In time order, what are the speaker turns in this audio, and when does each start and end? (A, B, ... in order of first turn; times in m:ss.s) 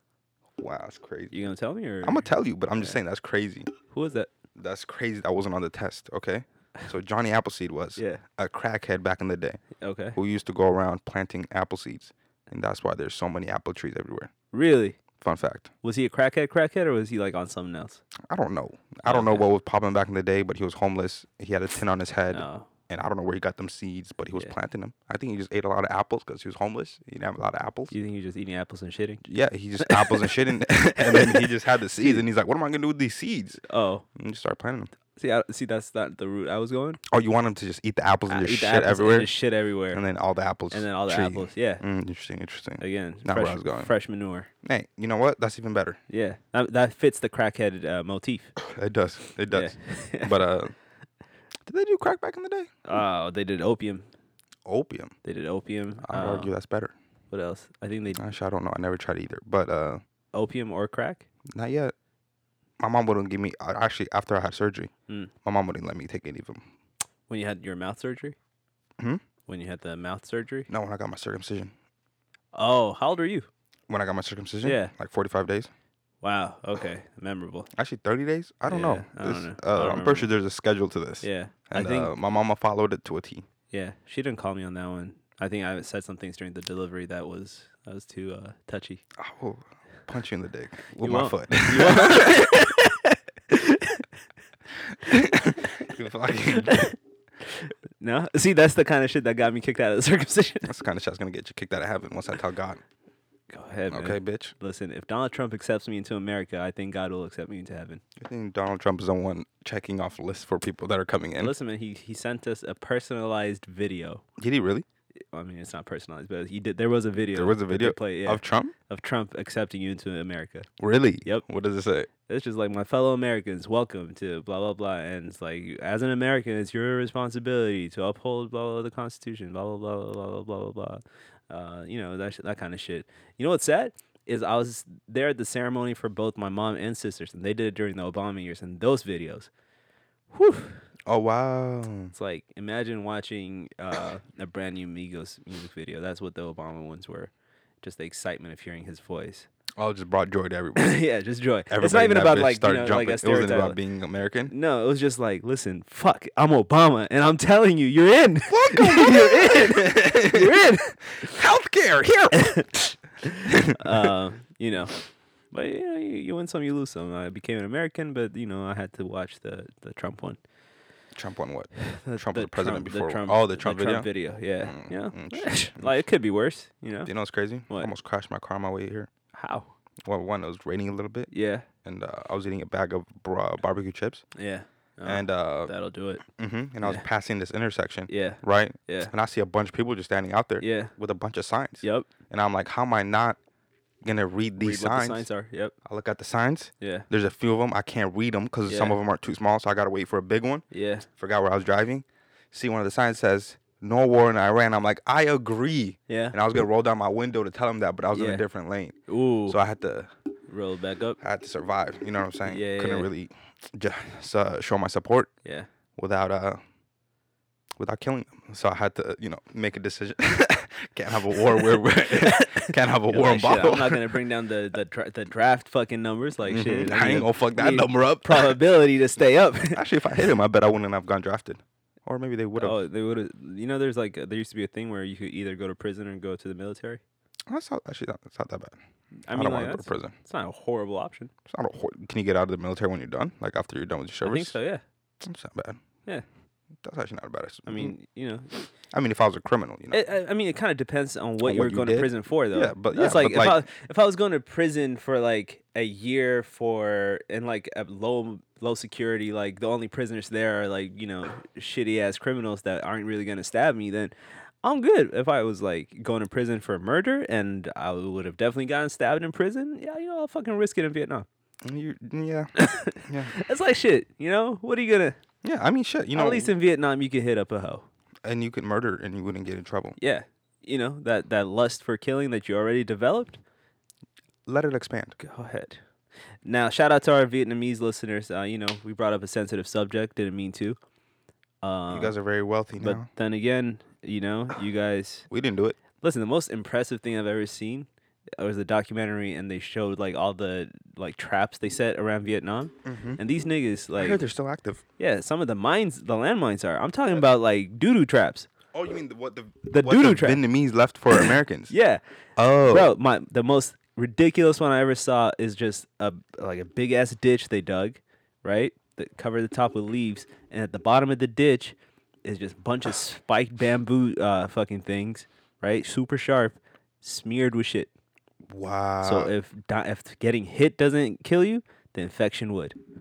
0:00.6-0:01.4 A
0:01.3-0:02.3 B
0:02.0-0:03.7 A
0:03.9-0:04.3 B
0:04.6-0:09.6 A
0:08.0-0:08.2 B
0:09.8-0:10.2 B
0:10.2-0:14.3 A
0:14.5-0:15.0 B
0:15.2-0:15.7 A
0:15.8-0:18.0 B
0:18.2-0:27.9 A
0:19.0-0:19.4 B
0:22.3-0:22.7 B
0:27.9-0:29.2 B
0:29.2-0:33.6 A
0:29.8-0:30.3 B
0:31.0-0:32.2 B
0:33.6-0:34.0 B
0:34.2-0:34.9 A
0:35.2-0:37.0 B
0:37.1-0:39.3 A
0:38.3-0:40.0 B
0:39.9-0:43.9 A
0:40.7-0:41.8 B
0:42.8-0:44.5 B
0:44.6-0:46.0 A
0:46.1-0:48.5 B
0:48.6-0:50.7 A
0:49.5-0:50.4 B
0:51.6-0:53.0 A
0:52.8-0:54.0 B
0:54.6-0:55.1 A
0:55.2-0:56.5 B
0:56.0-0:56.9 A
0:57.3-0:58.2 B
0:58.2-1:00.0 A
1:00.3-1:01.2 B
1:01.5-1:01.9 A
1:02.8-1:04.9 A
1:05.4-1:06.6 A
1:07.3-1:08.4 B
1:09.5-1:10.7 B
1:10.7-1:11.7 A
1:12.5-1:13.5 B
1:13.9-1:15.7 A
1:14.6-1:14.9 B
1:16.2-1:17.7 B
1:17.7-1:23.4 A
1:18.7-1:20.3 B
1:21.2-1:22.1 B
1:23.7-1:29.0 B
1:29.2-1:32.6 A
1:31.0-1:34.1 B
1:34.9-1:36.9 A
1:35.0-1:35.6 B
1:36.5-1:40.7 B
1:40.6-1:42.8 A
1:43.5-1:48.0 B
1:43.9-1:44.5 A
1:48.2-1:51.5 A
1:51.4-1:54.2 B
1:54.4-1:54.8 A
1:55.3-2:00.7 B
1:57.3-1:58.7 A
2:00.8-2:02.1 A
2:02.2-2:19.5 B
2:20.3-2:20.8 B
2:21.1-2:22.1 A
2:22.1-2:27.3 B
2:27.8-2:29.5 B
2:29.8-2:31.0 A
2:30.8-2:33.8 B
2:31.7-2:34.5 A
2:34.5-2:41.4 B
2:38.5-2:42.6 A
2:42.3-2:45.0 B
2:43.4-2:44.1 A
2:45.5-2:50.4 B
2:51.1-2:54.1 A
2:51.8-2:57.1 B
2:54.6-2:55.9 A
2:57.0-2:59.1 A
2:59.3-2:59.7 B
3:00.0-3:01.3 A
3:01.3-3:01.7 B
3:01.8-3:04.2 A
3:04.4-3:06.2 B
3:05.0-3:05.7 A
3:06.2-3:13.4 A
3:08.1-3:09.1 B
3:10.6-3:10.9 B
3:11.8-3:12.1 B
3:14.0-3:15.2 A
3:14.6-3:15.7 B
3:15.8-3:20.6 A
3:16.8-3:17.1 B
3:18.7-3:19.0 B
3:20.7-3:21.1 B
3:21.2-3:29.0 A
3:26.1-3:26.4 B
3:28.1-3:28.4 B
3:29.1-3:29.6 B
3:29.5-3:30.1 A
3:30.5-3:31.2 B
3:31.2-3:35.3 A
3:32.4-3:33.1 B
3:36.0-3:36.6 A
3:37.8-3:44.2 A
3:41.5-3:49.8 B
3:46.4-3:48.6 A
3:49.7-3:52.8 A
3:52.6-3:57.0 B
3:57.5-3:58.8 A
3:59.3-4:01.3 B
3:59.3-4:00.1 A
4:01.5-4:04.6 A
4:04.2-4:04.8 B
4:05.2-4:05.8 A
4:06.8-4:07.9 A
4:07.6-4:08.5 B
4:08.9-4:10.0 A
4:09.9-4:31.2 B
4:11.4-4:13.6 A
4:31.6-4:32.5 A
4:32.6-4:35.2 B
4:33.0-4:33.3 A
4:35.4-4:36.5 A
4:36.1-4:37.8 B
4:38.2-4:40.0 A
4:40.0-4:43.4 B
4:44.4-4:45.2 A
4:45.2-4:45.8 B
4:46.4-4:50.8 B
4:51.6-4:52.1 B
4:51.9-4:53.1 A
4:52.8-4:55.3 B
4:55.3-4:55.8 A
4:56.0-5:04.2 B
5:02.8-5:03.2 A
5:03.9-5:04.8 A
5:05.0-5:08.5 B
5:08.7-5:11.7 A
5:09.7-5:10.4 B
5:11.1-5:12.0 B
5:12.4-5:12.9 A
5:12.6-5:27.9 B
5:28.5-5:29.3 A
5:29.0-5:32.8 B